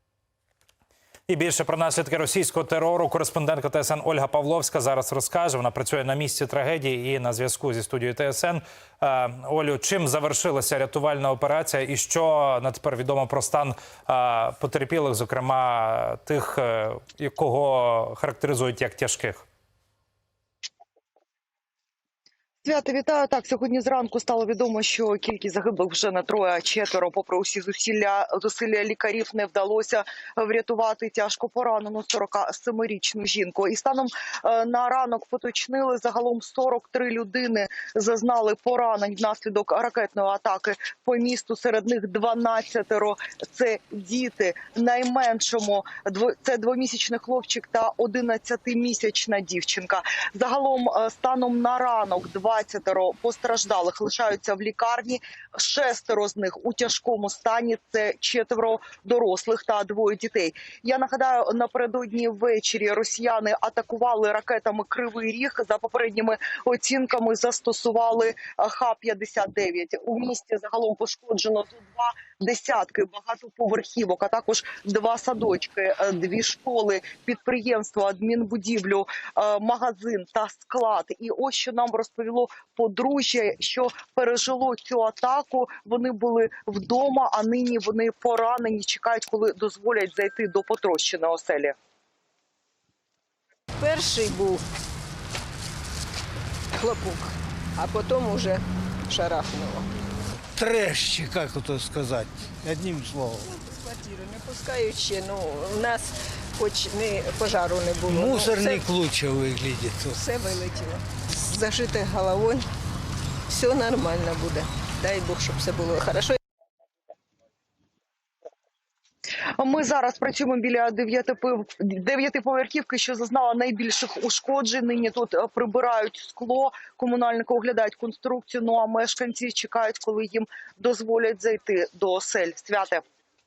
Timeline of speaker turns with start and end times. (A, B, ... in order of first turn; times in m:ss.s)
0:01.3-0:19.4 A
0:22.6-1:31.8 B
1:33.8-1:34.7 C
1:36.7-1:39.9 C
1:40.6-1:43.5 D
1:43.5-1:48.9 C
1:48.1-1:50.2 D
1:50.1-1:52.7 C
1:53.5-1:56.4 C
1:59.6-2:13.0 B